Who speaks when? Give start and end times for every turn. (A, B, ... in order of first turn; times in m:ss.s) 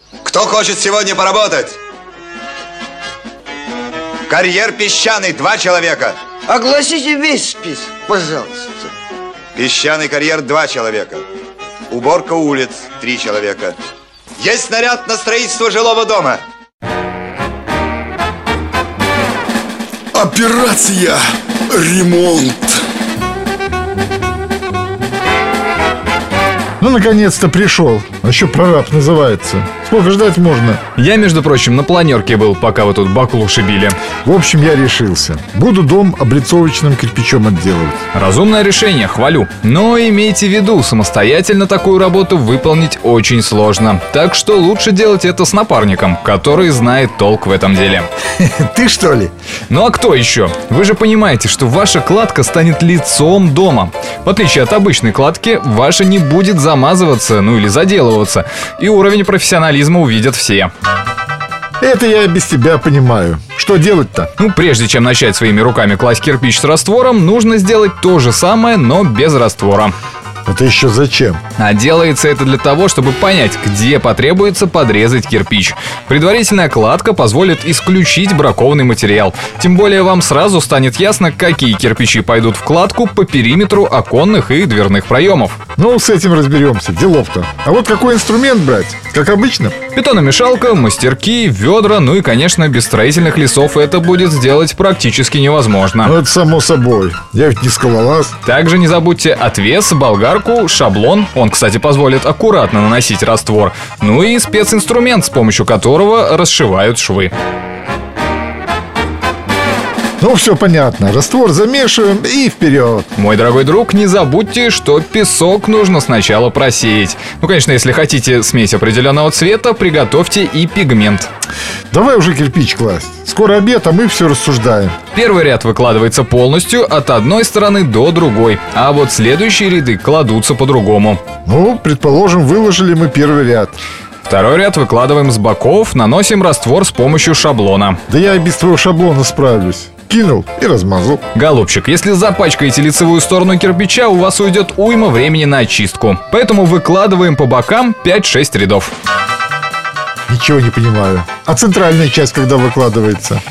0:00.2-0:01.8 A
0:04.3-0:06.2 A
0:06.5-0:08.8 B
0:09.6-0:11.3 A
0:11.9-0:13.8 A
0:14.4-0:16.4 A
0:20.1-0:22.8 C
0:26.8-0:30.8 D
0:31.0-0:34.0 E
0:34.2-0:38.0 D
0:38.1-0:48.1 E
0:48.6-0:49.3 D
0:49.7-1:00.7 E
1:01.8-1:04.3 D
1:04.4-1:10.0 E
1:10.5-1:11.4 D
1:11.6-1:25.6 E
1:25.8-1:29.8 D
1:29.9-1:36.2 E
1:36.0-1:38.4 D
1:38.4-1:47.3 E
1:50.2-1:53.1 D
1:53.2-2:01.3 E
2:01.9-2:05.0 D
2:05.1-2:11.2 E
2:11.5-2:13.8 D
2:14.2-2:18.0 E
2:18.1-2:21.2 D
2:21.3-2:28.9 E
2:30.3-2:33.4 D